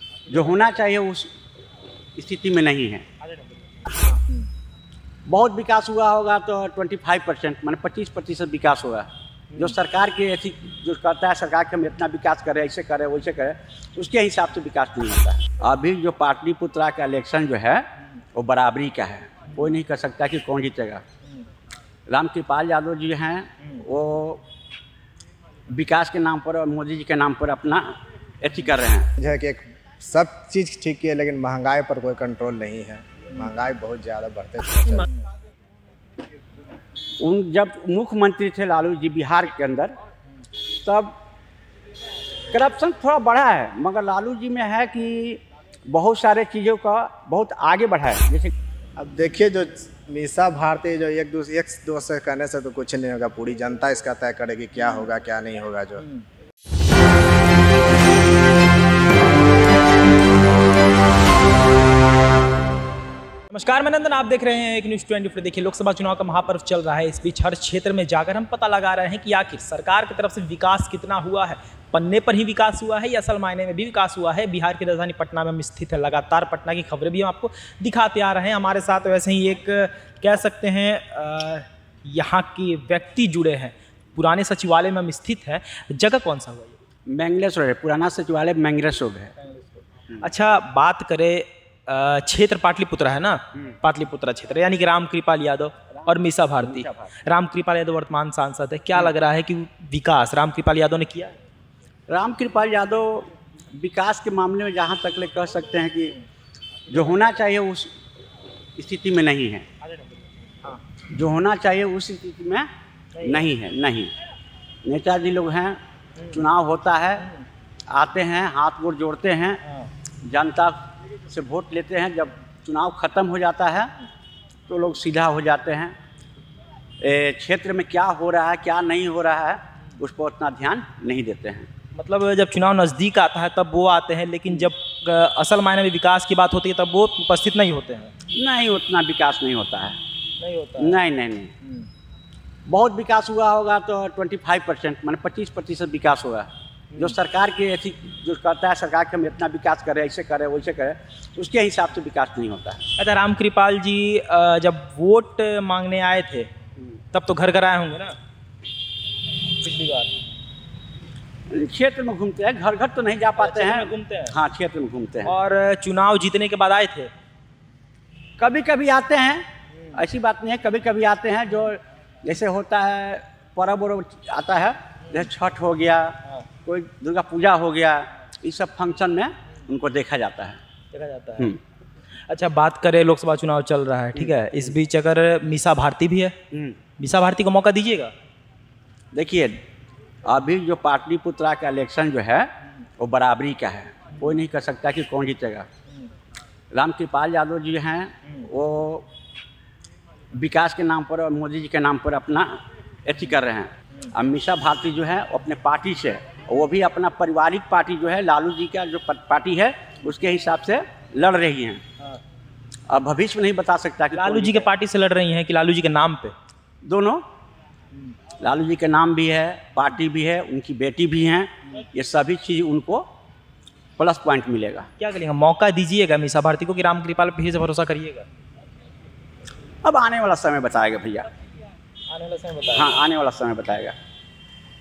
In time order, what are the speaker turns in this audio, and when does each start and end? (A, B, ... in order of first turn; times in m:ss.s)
0:00.3-0:01.3 A
0:02.2-0:03.1 A
0:03.8-0:04.4 B
0:05.2-0:21.0 A
0:22.1-0:24.4 A
0:25.7-0:29.1 A
0:29.2-0:35.1 C
0:37.2-0:39.9 A
0:40.7-0:41.2 A
0:42.5-0:48.5 A
0:49.0-0:56.0 C
0:56.0-0:56.2 B
1:03.5-1:26.8 B
1:27.1-1:29.3 A
1:30.2-1:41.3 B
1:36.6-1:37.1 A
1:42.1-1:46.2 A
1:46.9-1:47.9 A
1:48.8-1:49.7 A
1:49.9-1:50.8 B
1:51.1-1:52.7 A
1:53.1-1:53.5 B
1:53.2-1:54.1 A
1:54.8-1:57.3 A
1:57.9-1:59.6 A
1:59.6-1:59.9 B
2:00.2-2:03.9 A
2:04.7-2:06.0 A
2:07.0-2:11.7 A
2:11.9-2:18.1 B
2:18.3-2:20.0 A
2:20.4-2:21.0 B
2:20.8-2:21.5 A
2:21.6-2:21.9 B
2:22.7-2:32.8 A
2:26.9-2:27.2 B
2:33.0-2:36.5 B
2:37.1-2:38.2 B
2:39.5-2:40.1 B
2:41.5-2:45.3 A
2:43.4-2:44.3 B
2:45.2-2:47.1 B
2:48.4-3:00.6 A
3:00.9-3:01.5 B
3:02.3-3:06.3 B
3:06.5-3:06.8 A
3:07.0-3:08.1 B
3:09.1-3:09.6 A
3:10.2-3:15.7 A
3:16.7-3:19.1 A
3:20.3-3:31.8 A
3:32.9-3:34.7 A
3:34.1-3:36.3 B
3:36.8-3:37.2 A
3:38.4-3:43.1 A
3:44.0-3:44.9 A
3:45.0-3:48.3 B
3:49.8-3:51.3 A
3:52.1-3:53.0 B
3:52.7-3:54.0 A